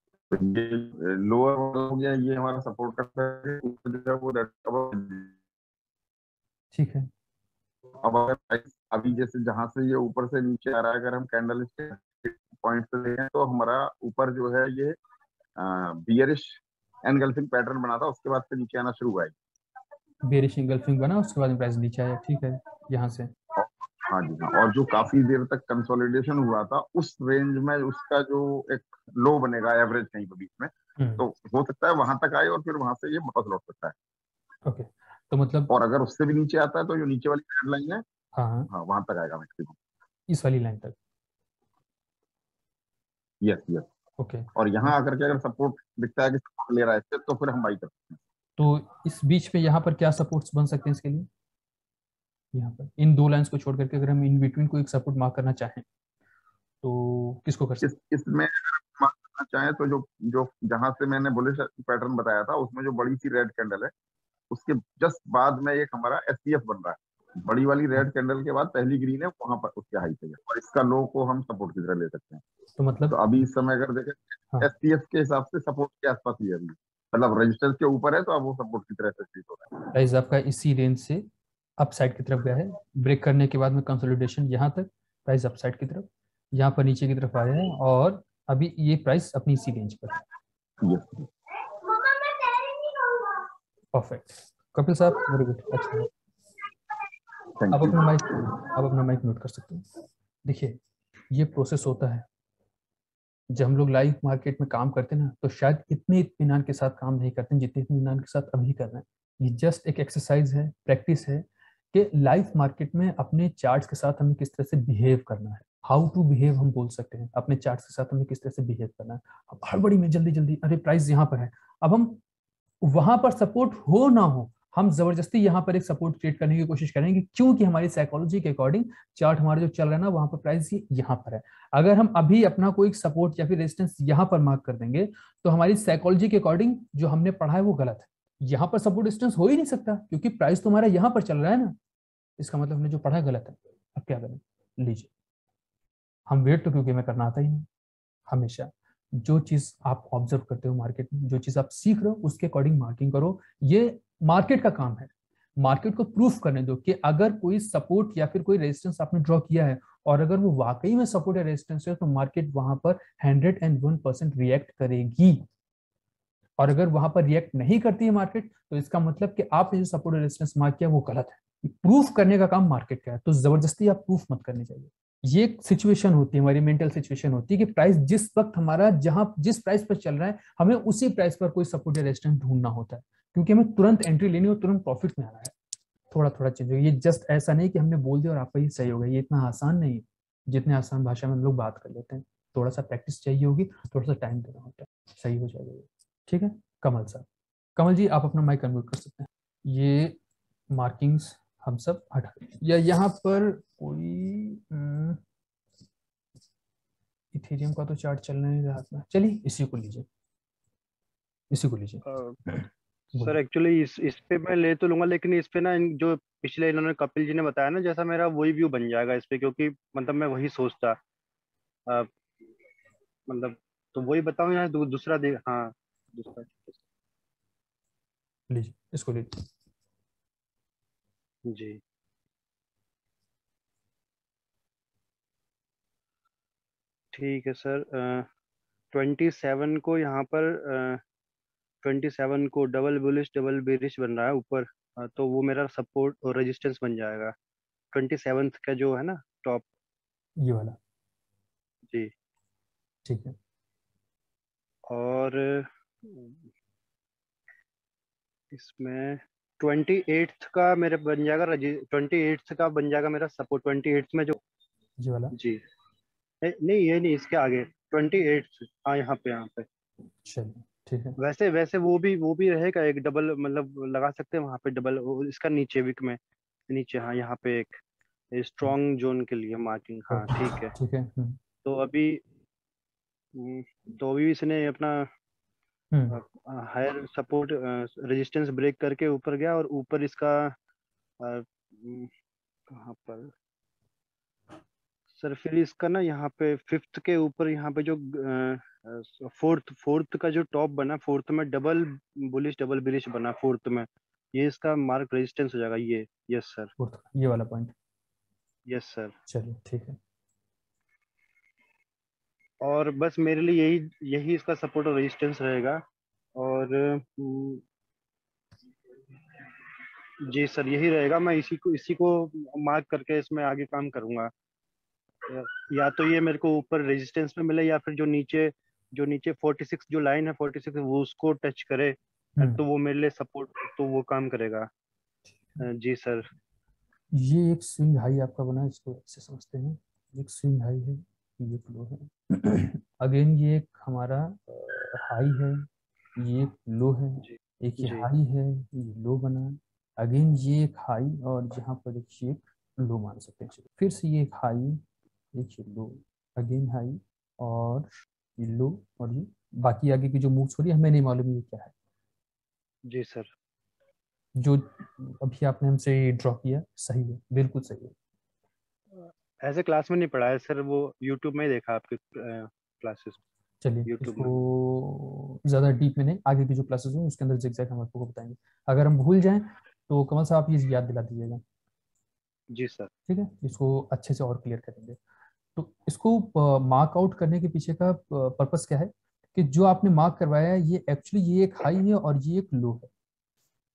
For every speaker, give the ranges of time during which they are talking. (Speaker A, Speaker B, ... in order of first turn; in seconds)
Speaker A: 0.3-5.3, 8.0-15.0, 15.6-19.3, 23.6-33.9, 35.7-38.0, 38.7-39.8, 43.4-43.9, 44.5-48.2, 57.8-63.9, 64.5-72.4, 73.1-79.7, 90.8-91.3, 97.6-98.2
Speaker B: 6.7-7.1, 20.2-23.3, 31.0-31.2, 34.6-35.7, 38.3-38.7, 40.3-41.0, 44.2-44.9, 48.6-51.3, 52.5-55.8, 56.8-57.9, 72.8-73.2, 79.9-81.2, 81.8-90.2, 93.9-96.1, 97.7-99.8, 100.4-100.8, 101.3-102.2, 103.5-122.2, 122.8-141.8, 142.4-145.1, 146.3-147.7, 148.3-165.4, 166.6-185.5, 186.1-200.2, 200.7-205.2, 207.3-210.1, 211.5-212.7, 228.5-229.4, 250.4-250.8, 253.1-253.3, 265.0-265.3, 270.2-271.1, 280.1-281.4, 285.9-286.2, 306.8-307.7, 309.3-310.0, 337.1-354.8, 355.3-361.7, 364.4-367.9, 373.6-381.4, 383.1-385.0, 385.6-392.9
Speaker C: 212.1-212.3, 213.1-221.0, 223.3-226.7, 231.5-231.8, 237.1-238.3, 238.9-241.0, 241.8-247.3, 247.9-249.7, 254.9-256.4, 258.5-264.4, 265.3-265.6, 266.4-269.6, 271.2-277.8, 278.3-280.7, 281.6-282.2, 283.3-285.1, 286.1-290.5, 291.2-292.1, 292.7-293.3, 295.1-306.7, 308.7-309.1, 312.6-315.8, 316.4-317.6, 320.2-324.3, 325.2-334.7, 335.6-336.3, 347.2-348.1, 362.9-363.3, 368.9-373.2, 373.9-374.4, 382.5-382.9